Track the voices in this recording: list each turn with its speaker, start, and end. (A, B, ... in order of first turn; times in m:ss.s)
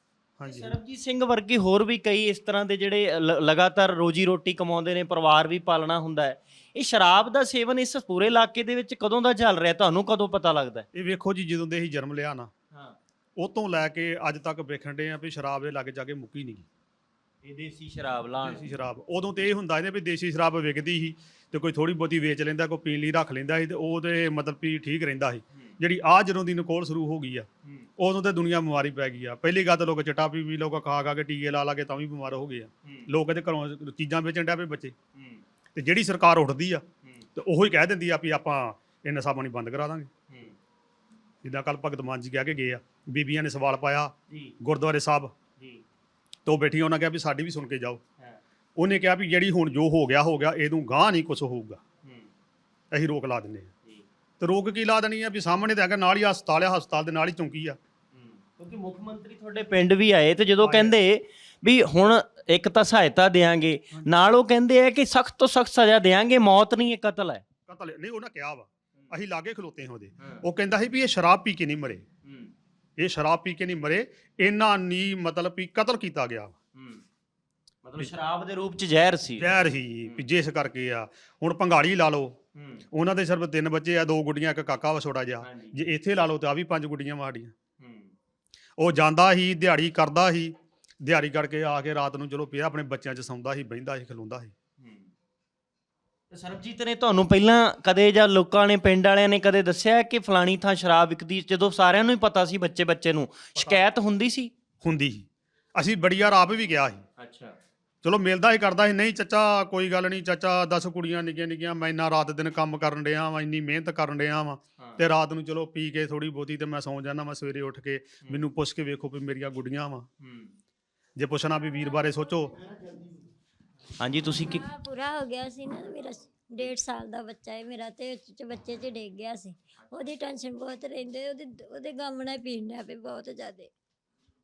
0:00.4-0:00.8 A
0:00.5-0:10.9 B
0:10.9-0:12.5 A
0:12.7-0:13.0 B
0:13.4-0:16.7 A
0:17.4-0:18.7 B
0:18.4-0:27.5 A
0:28.0-0:35.0 A
0:35.2-0:35.4 B
0:35.8-0:36.8 A
0:37.4-0:40.1 A
0:40.3-0:40.6 B
0:41.4-0:45.3 A
0:44.3-0:44.6 B
0:46.4-0:48.0 A
0:48.8-0:51.8 A
0:52.0-0:52.3 B
0:52.9-0:53.7 A
0:54.4-0:57.8 A
0:58.1-1:07.4 B
1:00.6-1:01.0 A
1:07.7-1:12.0 A
1:12.2-1:12.5 B
1:13.0-1:16.5 A
1:16.8-1:17.0 B
1:17.8-1:20.2 B
1:19.4-1:22.4 A
1:22.6-1:22.8 B
1:22.9-1:27.6 A
1:25.4-1:25.8 B
1:27.8-1:28.1 B
1:28.8-1:34.5 A
1:34.8-1:35.1 B
1:36.3-1:44.5 B
1:44.8-1:47.0 A
1:47.2-1:47.6 B
1:48.0-2:00.1 A
2:00.2-2:00.5 B
2:01.2-2:02.5 A
2:04.0-2:04.6 B
2:04.5-2:13.7 C